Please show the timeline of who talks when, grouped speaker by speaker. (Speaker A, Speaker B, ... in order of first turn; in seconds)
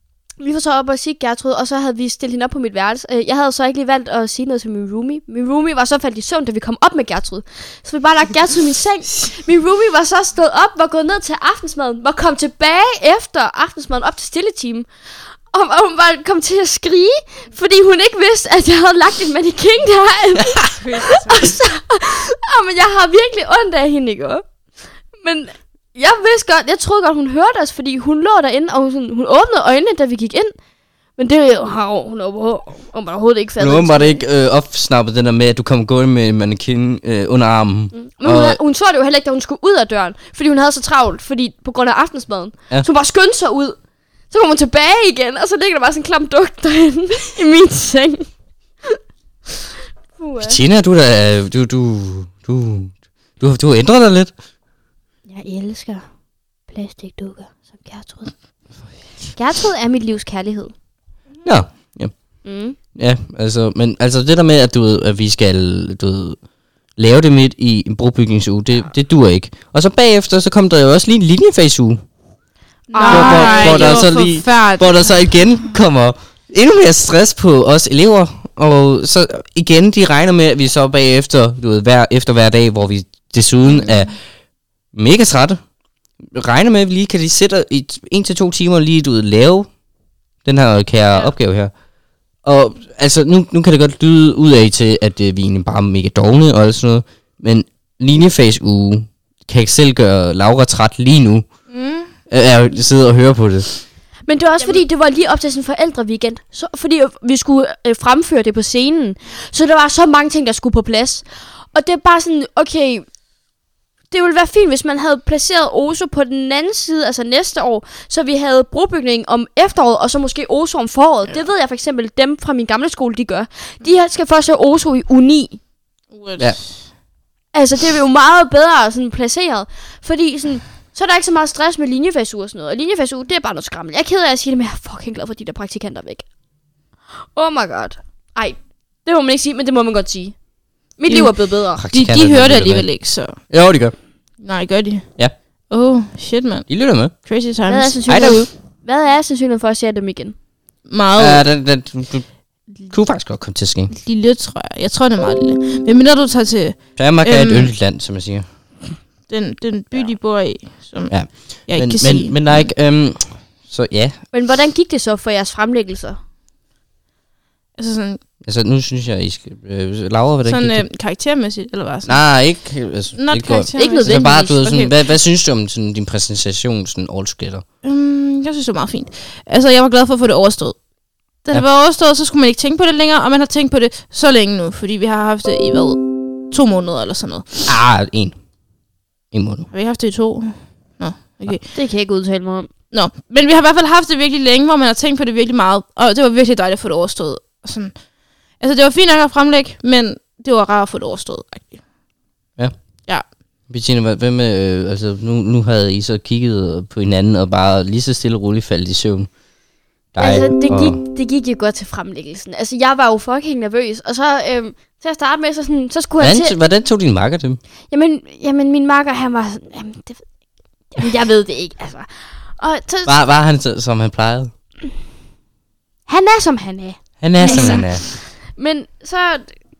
Speaker A: 0.4-14.9, 15.5-24.4, 25.2-30.6, 31.2-34.2, 37.9-43.8, 44.3-48.3, 50.2-50.6, 55.3-56.0, 56.7-58.3, 59.3-60.7, 62.5-62.8, 72.9-74.1, 104.3-113.1, 114.1-125.6, 127.5-136.2, 137.3-140.4, 141.0-141.8, 147.7-150.3, 164.3-166.2, 173.8-175.0, 191.7-192.7, 210.2-216.6, 217.9-220.2, 220.9-223.2, 226.1-229.5
Speaker B: 20.9-21.2, 72.9-75.1, 101.7-102.1, 126.1-126.8, 141.9-143.4, 144.4-145.1, 145.7-146.7, 147.2-148.4, 150.9-151.4, 153.9-157.7, 159.3-162.7, 167.8-168.2, 170.5-172.2, 173.1-174.2, 177.8-180.8, 181.4-187.7, 189.7-191.7, 192.9-197.9, 198.6-201.8
Speaker C: 33.6-38.6, 50.4-54.3, 61.4-62.1, 63.0-66.4, 67.0-72.0, 73.1-84.1, 84.9-85.6, 86.2-89.7, 90.5-91.7, 92.4-101.5, 102.3-103.8, 141.8-142.9, 143.5-143.9, 146.7-147.1, 148.1-148.4, 151.2-152.3, 152.9-153.9, 157.0-158.4, 161.1-164.2, 168.4-170.8, 172.1-177.6, 187.7-188.3, 189.3-189.7, 203.7-209.3, 210.1-211.0, 216.2-217.6, 223.1-224.5, 227.2-228.0